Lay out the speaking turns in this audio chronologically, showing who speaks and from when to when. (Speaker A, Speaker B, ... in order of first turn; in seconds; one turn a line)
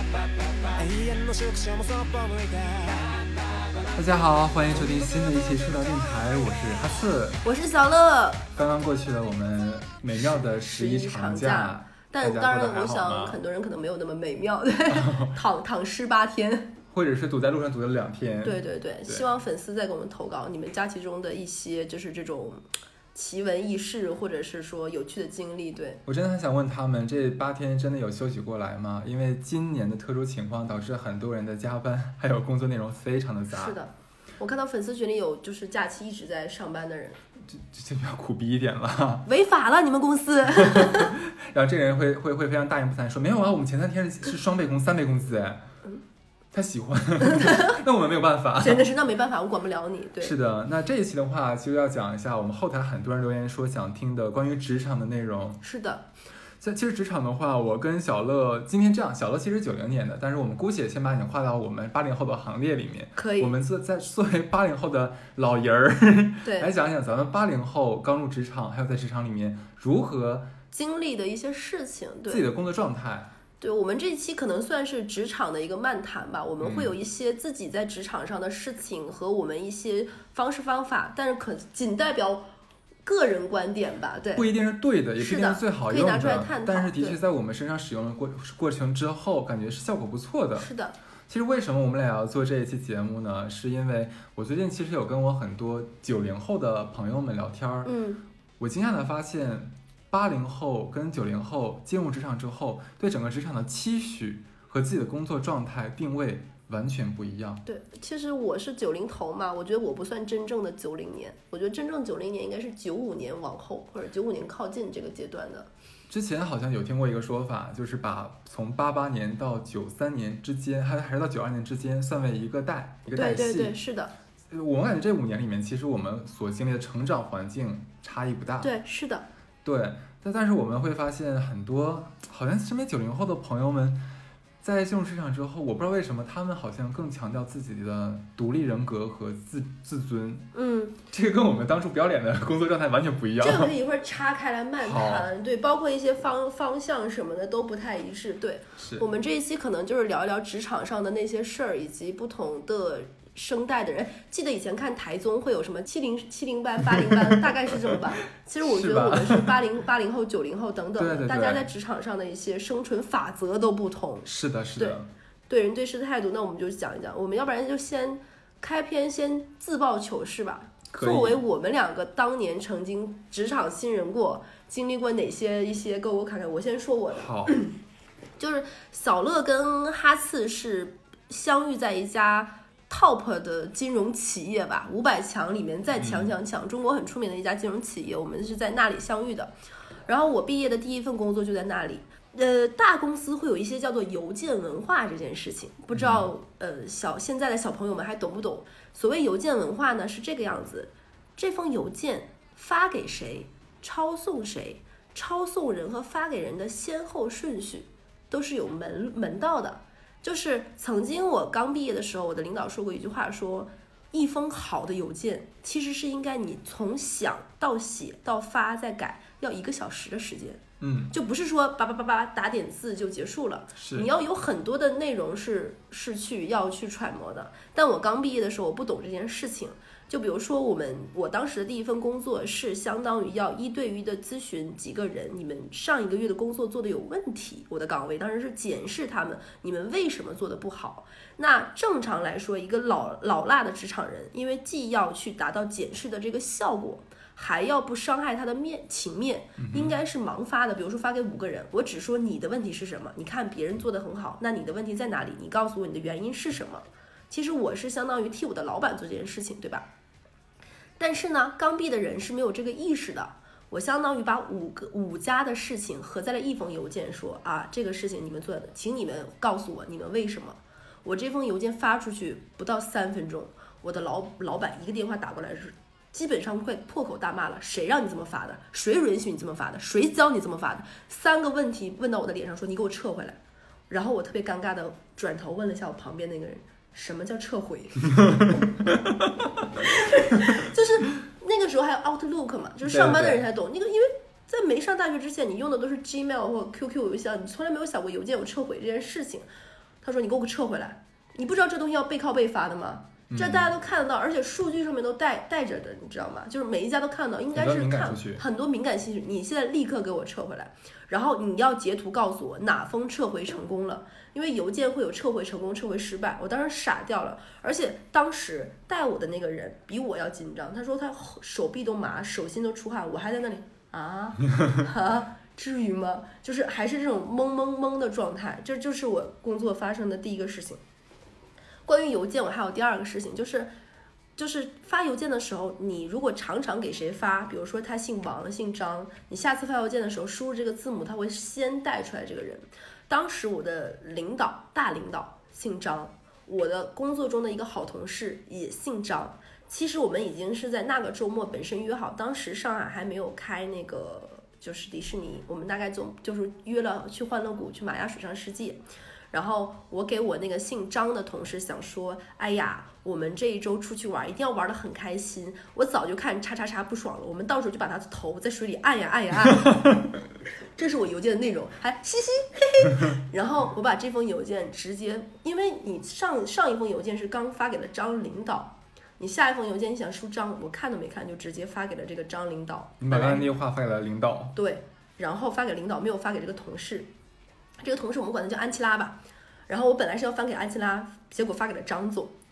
Speaker A: 0.7-3.3
Speaker B: 4.0-7.4
Speaker C: 7.4-8.5
Speaker B: 8.6-13.4
Speaker C: 10.1-16.8
Speaker B: 14.9-15.3
Speaker B: 16.9-19.2
Speaker C: 18.4-22.6
Speaker C: 23.1-26.0
Speaker B: 26.1-33.8
Speaker C: 33.5-37.2
Speaker B: 37.5-39.3
Speaker C: 39.3-41.1
Speaker B: 40.5-45.7
Speaker B: 46.5-48.9
Speaker C: 47.2-47.8
Speaker C: 48.6-50.3
Speaker B: 50.2-55.6
Speaker C: 55.6-56.1
Speaker B: 56.6-70.5
Speaker C: 63.2-63.5
Speaker C: 66.4-66.7
Speaker C: 70.7-72.4
Speaker B: 72.3-73.3
Speaker C: 73.6-82.5
Speaker B: 76.6-76.9
Speaker C: 83.1-84.5
Speaker B: 84.3-90.7
Speaker C: 85.2-87.2
Speaker C: 90.6-91.0
Speaker B: 91.3-98.0
Speaker C: 97.8-98.2
Speaker B: 98.6-107.6
Speaker C: 107.7-115.7
Speaker B: 116.1-123.8
Speaker C: 123.2-124.1
Speaker B: 124.5-128.7
Speaker C: 128.6-129.3
Speaker B: 129.6-134.1
Speaker B: 134.6-140.5
Speaker C: 140.5-141.0
Speaker B: 141.1-143.7
Speaker C: 143.4-177.8
Speaker B: 144.8-145.3
Speaker B: 148.8-149.1
Speaker B: 158.6-159.6
Speaker B: 161.0-161.7
Speaker B: 164.2-165.1
Speaker B: 170.9-171.4
Speaker B: 177.2-177.6
Speaker C: 178.4-189.5
Speaker B: 186.0-186.3
Speaker C: 190.1-259.9
Speaker B: 195.9-196.3
Speaker B: 220.8-221.1
Speaker B: 223.8-224.1
Speaker B: 249.6-249.9
Speaker C: 261.0-283.4
Speaker C: 283.9-288.6
Speaker C: 289.8-299.5
Speaker B: 292.8-293.4
Speaker C: 300.0-330.8
Speaker B: 303.3-303.7
Speaker B: 307.5-308.4
Speaker C: 331.9-333.7
Speaker C: 334.4-358.8
Speaker C: 359.3-370.0
Speaker C: 370.8-383.5
Speaker B: 383.0-384.6
Speaker C: 384.6-387.1
Speaker C: 387.8-392.4